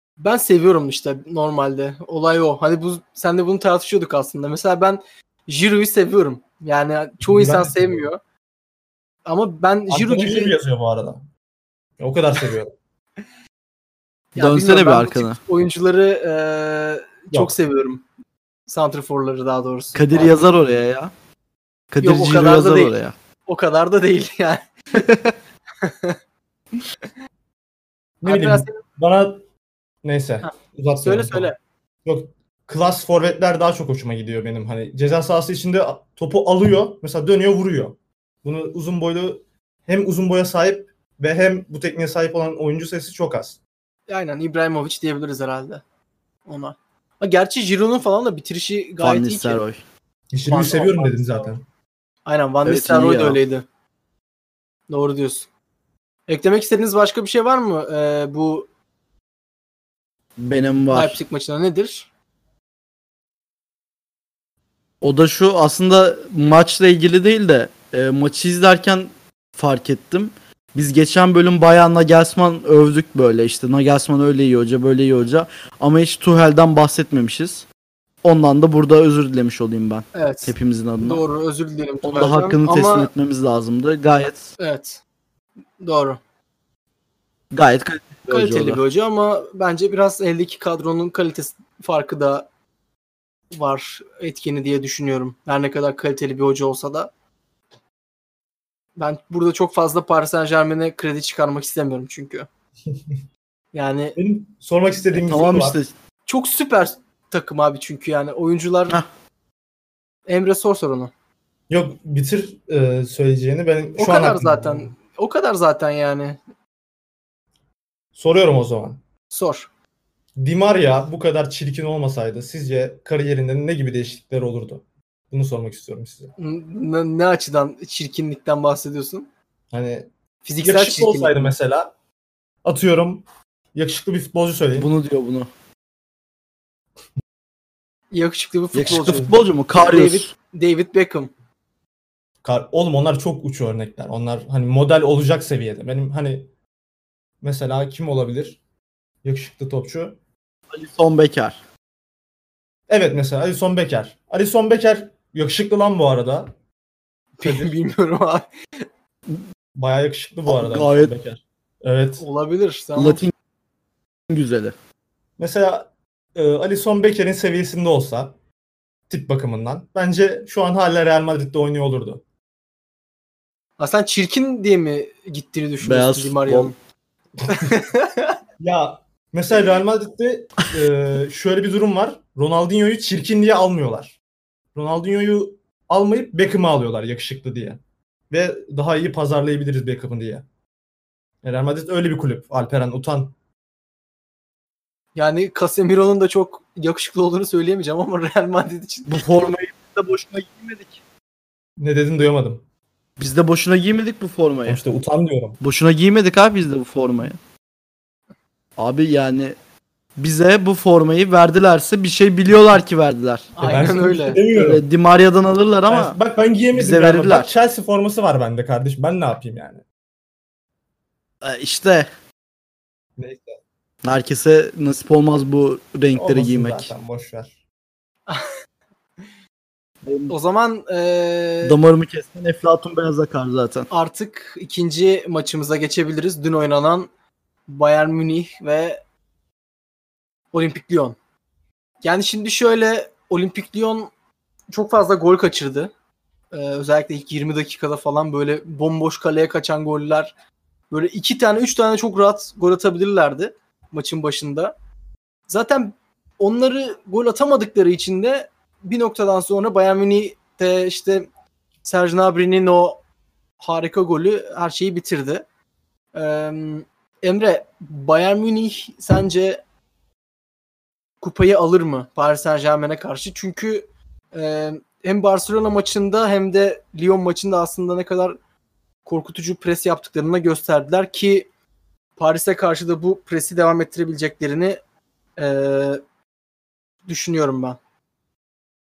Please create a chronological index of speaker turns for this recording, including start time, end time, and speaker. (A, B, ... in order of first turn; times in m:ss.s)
0:00.2-0:08.2 A
0:07.2-0:08.1 B
0:09.2-0:10.5 A
0:09.9-0:11.2 B
0:12.0-0:12.7 B
0:14.3-0:18.0 A
0:14.4-0:15.4 C
0:17.3-0:17.6 B
0:18.7-0:20.4 A
0:19.9-0:21.1 C
0:21.9-0:23.1 C
0:22.0-0:22.9 A
0:23.5-0:26.2 A
0:28.2-0:29.4 B
0:28.2-0:28.8 A
0:30.0-0:31.5 B
0:30.4-0:31.6 A
0:32.0-0:43.6 B
0:44.1-0:45.8 A
0:46.5-0:49.6 A
0:49.0-0:49.8 C
0:50.3-0:51.6 B
0:50.5-0:51.5 A
0:52.2-0:53.6 A
0:52.6-0:53.4 C
0:54.9-0:55.5 A
0:56.3-0:58.7 A
1:00.4-1:01.2 C
1:00.9-1:02.1 A
1:05.0-1:17.6 C
1:18.2-1:21.2 C
1:20.1-1:23.1 A
1:22.0-1:24.5 C
1:24.6-1:25.0 A
1:25.8-1:26.2 A
1:27.5-1:28.8 C
1:28.3-1:32.5 A
1:33.5-1:37.1 A
1:39.0-1:42.5 A
1:43.7-1:44.2 A
1:44.2-1:45.8 B
1:45.2-1:45.9 C
1:46.3-1:49.0 A
1:50.3-1:51.1 A
1:51.7-1:54.9 B
1:54.0-1:56.4 A
1:58.2-1:59.0 B
1:59.3-1:59.7 A
2:00.4-2:06.3 B
2:06.4-2:09.3 A
2:09.7-2:10.1 B
2:10.4-2:11.5 A
2:10.6-2:11.9 B
2:12.6-2:13.2 B
2:13.7-2:14.9 B
2:14.8-2:15.5 C
2:18.1-2:21.3 A
2:18.7-2:20.3 C
2:22.4-2:26.5 B
2:27.4-2:28.6 B
2:29.2-2:30.2 B
2:30.7-2:31.6 C
2:32.9-2:36.5 B
2:37.4-2:38.4 A
2:37.4-2:37.7 B
2:39.8-2:42.2 B
2:40.5-2:41.1 C
2:42.2-2:43.2 A
2:43.0-2:43.3 C
2:44.3-2:44.7 C
2:45.4-2:48.3 B
2:49.1-2:52.2 B
2:53.8-2:56.7 A
2:55.8-2:56.7 C
2:57.4-2:57.7 B
2:57.4-2:58.4 A
2:58.6-3:04.2 B
3:04.7-3:10.4 B
3:11.4-3:13.3 B
3:15.2-3:19.3 A
3:19.1-3:21.0 C
3:21.8-3:22.6 B
3:23.2-3:24.8 C
3:24.7-3:25.6 B
3:25.6-3:27.4 C
3:28.8-3:29.5 C
3:30.2-3:33.8 C
3:33.6-3:34.4 A
3:33.6-3:34.8 B
3:34.5-3:36.2 C
3:35.9-3:39.8 B
3:36.7-3:37.5 C
3:41.4-3:42.1 C
3:43.2-3:43.6 B
3:44.0-3:46.9 C
3:46.1-3:47.5 B
3:50.0-3:50.3 C
3:50.3-3:51.8 A
3:51.6-3:53.9 C
3:53.9-3:57.1 A
3:57.7-3:59.0 A
4:00.5-4:01.2 A
4:02.0-4:04.1 A
4:04.7-4:05.9 A
4:06.5-4:10.3 A
4:10.9-4:14.7 A
4:15.5-4:21.3 A
4:21.8-4:23.0 A
4:23.6-4:25.4 A
4:26.1-4:29.6 A
4:31.2-4:38.4 A
4:39.0-4:41.5 A
4:42.2-4:44.8 A
4:45.4-4:46.0 A
4:47.1-4:47.8 A